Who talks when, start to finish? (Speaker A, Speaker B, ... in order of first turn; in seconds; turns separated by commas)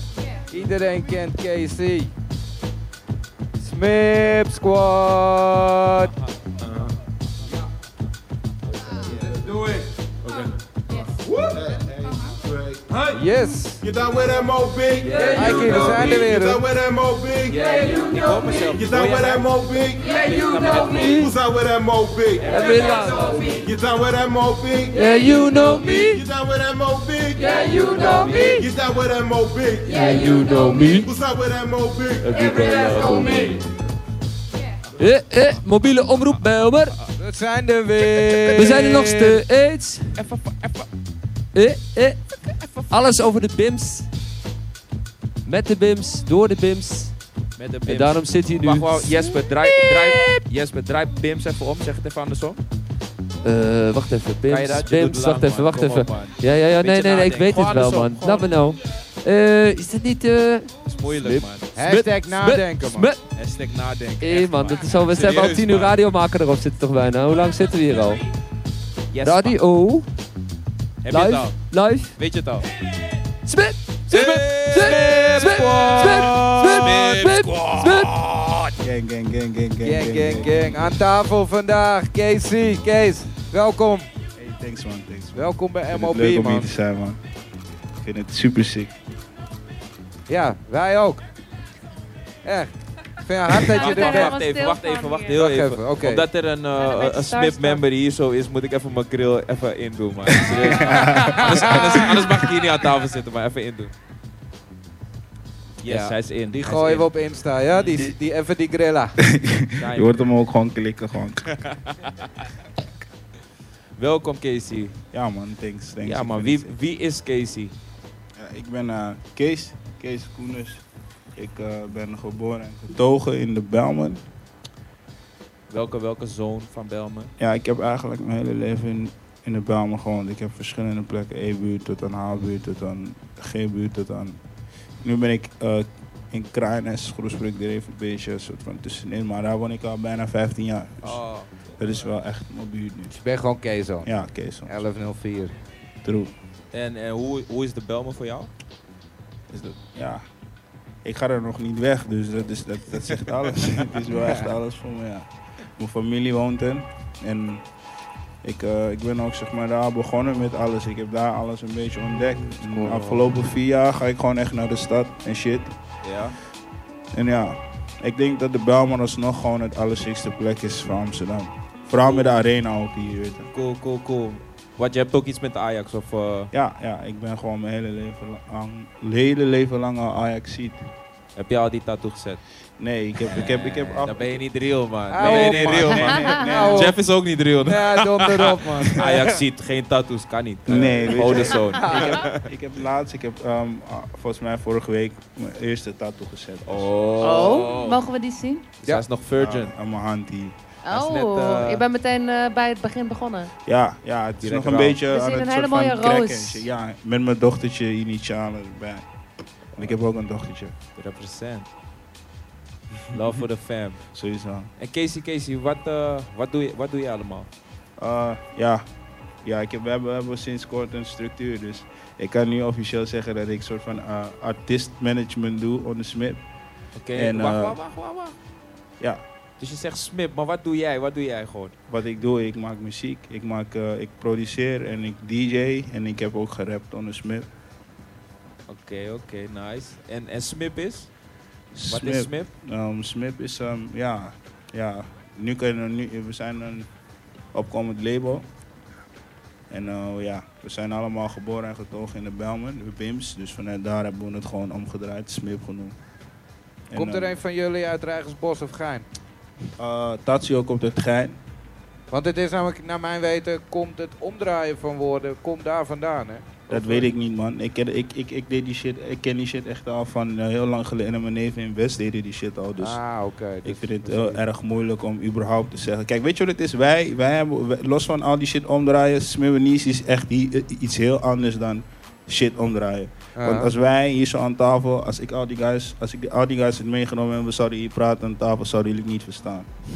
Speaker A: 0.5-2.1, Speaker A: 3.6-6.1, Speaker B: 6.6-6.9, Speaker C: 9.1-9.6, Speaker C: 11.5-13.0, Speaker A: 13.1-13.8, Speaker C: 13.8-17.7, Speaker B: 15.1-15.9, Speaker D: 15.1-15.4, Speaker A: 15.2-16.6, Speaker B: 17.5-19.5, Speaker D: 17.8-18.2, Speaker C: 18.7-20.2, Speaker B: 20.0-21.3, Speaker D: 20.2-21.3, Speaker C: 20.8-22.7, Speaker B: 22.4-23.1, Speaker D: 22.4-23.6, Speaker C: 23.6-32.7, Speaker D: 24.9-26.2, Speaker D: 27.4-28.7, Speaker D: 29.9-31.1, Speaker D: 32.3-33.6, Speaker D: 35.0-37.0, Speaker A: 37.2-39.4, Speaker D: 38.3-40.2, Speaker B: 40.1-40.9, Speaker D: 41.5-42.2, Speaker B: 42.4-43.1, Speaker D: 42.9-44.1, Speaker D: 45.5-47.1, Speaker B: 47.6-52.6, Speaker D: 47.8-50.4, Speaker D: 53.4-63.2, Speaker B: 54.5-58.5, Speaker B: 60.9-61.7, Speaker A: 61.8-63.1, Speaker B: 63.3-65.9, Speaker D: 64.2-68.2, Speaker B: 69.1-69.6, Speaker D: 69.2-70.1, Speaker B: 71.0-72.7, Speaker D: 71.1-72.2, Speaker D: 73.5-78.2, Speaker B: 74.1-78.7, Speaker E: 78.8-81.0, Speaker A: 79.8-84.1, Speaker E: 84.4-87.2, Speaker A: 85.3-86.7, Speaker E: 88.0-88.9, Speaker A: 90.3-91.2, Speaker A: 92.4-94.3, Speaker B: 93.6-103.9, Speaker F: 93.7-95.3, Speaker A: 95.3-96.2, Speaker F: 96.8-97.8, Speaker E: 100.6-101.6, Speaker A: 101.3-102.1, Speaker B: 105.8-107.1, Speaker A: 105.9-109.1, Speaker E: 109.2-111.5, Speaker B: 109.8-110.2, Speaker B: 111.6-112.3, Speaker B: 114.0-114.9, Speaker E: 115.1-116.7, Speaker B: 116.0-117.7, Speaker E: 118.4-120.8, Speaker E: 121.3-124.2, Speaker B: 125.7-127.3, Speaker E: 127.4-134.4, Speaker E: 135.0-141.2, Speaker B: 141.0-141.5, Speaker E: 141.8-143.1, Speaker A: 143.1-144.1, Speaker E: 144.0-144.7, Speaker A: 144.7-145.5, Speaker E: 146.0-146.3, Speaker B: 146.7-148.5, Speaker E: 149.5-150.2, Speaker E: 151.0-155.3, Speaker A: 154.2-154.4, Speaker E: 155.8-157.6, Speaker E: 158.4-165.7, Speaker B: 166.0-166.3, Speaker E: 167.1-173.5, Speaker B: 172.0-172.3, Speaker B: 173.5-176.5, Speaker E: 176.5-180.9, Speaker B: 181.3-182.4, Speaker E: 182.8-184.4, Speaker B: 183.3-192.5, Speaker A: 185.1-186.9, Speaker E: 185.2-186.9, Speaker F: 186.1-186.5, Speaker A: 187.7-189.3, Speaker E: 190.7-196.9, Speaker A: 191.7-192.1, Speaker B: 196.7-198.1, Speaker F: 197.2-198.7, Speaker B: 198.8-199.7, Speaker E: 199.4-200.6, Speaker F: 200.8-203.5, Speaker B: 200.9-201.8, Speaker E: 203.7-209.1, Speaker B: 204.4-205.0, Speaker F: 205.1-206.7, Speaker E: 209.8-210.7, Speaker B: 211.0-211.7, Speaker B: 213.1-214.0, Speaker E: 214.1-214.7, Speaker B: 214.8-217.5, Speaker E: 218.0-218.8, Speaker E: 219.4-226.4, Speaker B: 227.0-228.3, Speaker E: 227.1-227.8, Speaker B: 229.6-231.7, Speaker E: 231.9-237.5, Speaker B: 238.7-241.1, Speaker E: 241.7-246.9, Speaker B: 241.9-242.5, Speaker E: 247.5-248.4, Speaker E: 249.7-256.0, Speaker E: 256.9-257.4, Speaker A: 256.9-259.1, Speaker E: 259.8-261.4, Speaker A: 262.1-267.1, Speaker E: 266.7-273.0, Speaker A: 272.8-274.4, Speaker E: 273.6-289.7, Speaker A: 283.4-283.7